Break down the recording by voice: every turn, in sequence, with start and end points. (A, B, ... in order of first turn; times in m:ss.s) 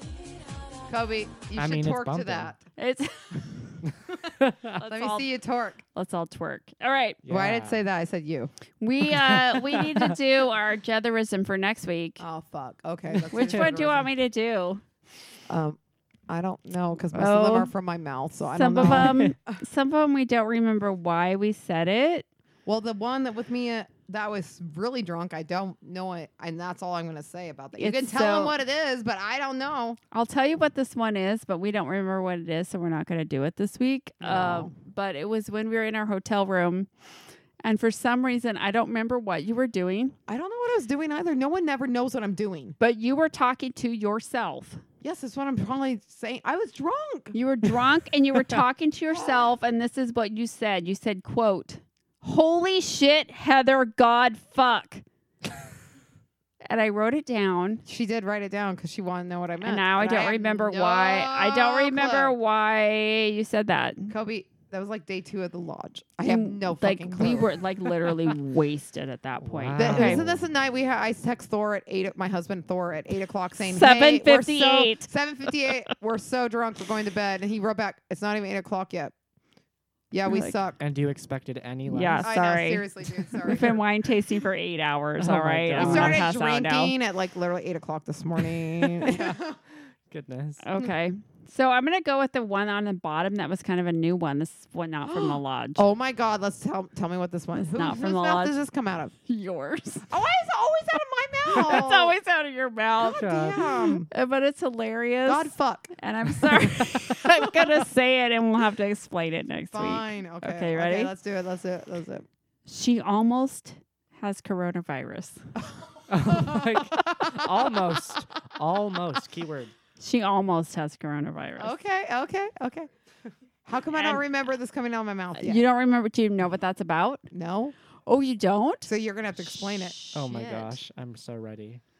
0:00.9-0:02.6 A
0:01.5-0:02.5 B
0:02.8-0:03.8 C
0:03.8-0:04.8 B
0:04.8-0:05.3 C
0:04.8-0:05.8 A
0:05.8-0:07.2 C
0:07.2-0:07.8 B
0:07.3-0:08.5 A
0:08.8-0:12.2 C
0:09.0-0:10.2 B
0:12.2-0:14.1 A
0:13.1-0:13.7 B
0:13.3-0:14.8 C
0:15.5-0:15.8 A
0:16.3-0:19.6 A
0:17.1-0:17.7 C
0:18.5-0:22.2 C
0:18.8-0:19.3 B
0:22.6-0:30.0 A
0:27.8-0:28.6 C
0:30.1-0:36.9 C
0:34.2-0:34.7 A
0:37.6-0:40.2 C
0:40.3-0:42.8 A
0:42.8-0:44.8 C
0:45.0-0:47.3 A
0:47.3-0:55.0 C
0:56.6-0:57.8 C
0:57.8-1:02.3 A
0:59.6-1:04.1 C
1:04.1-1:07.5 A
1:06.2-1:10.2 C
1:09.4-1:10.5 B
1:09.8-1:19.1 A
1:13.6-1:15.8 C
1:20.1-1:20.8 A
1:20.2-1:20.6 C
1:20.8-1:22.3 B
1:21.9-1:26.9 C
1:22.2-1:23.8 A
1:25.2-1:26.3 B
1:25.8-1:29.6 A
1:28.9-1:29.4 B
1:30.1-1:30.6 B
1:30.6-1:35.8 C
1:35.0-1:39.1 A
1:37.7-1:38.6 C
1:39.3-1:40.1 C
1:40.1-1:42.2 A
1:41.4-1:51.1 C
1:43.0-1:44.1 A
1:43.1-1:43.6 B
1:45.2-1:45.9 A
1:46.8-1:47.8 B
1:49.7-1:52.2 A
1:52.7-1:55.4 C
1:56.1-1:59.7 B
1:56.2-1:57.7 A
2:00.0-2:01.8 C
2:01.6-2:02.9 A
2:03.6-2:05.6 A
2:03.9-2:04.2 C
2:05.4-2:07.2 C
2:07.3-2:07.7 A
2:08.0-2:10.8 C
2:08.8-2:09.9 A
2:10.1-2:11.8 B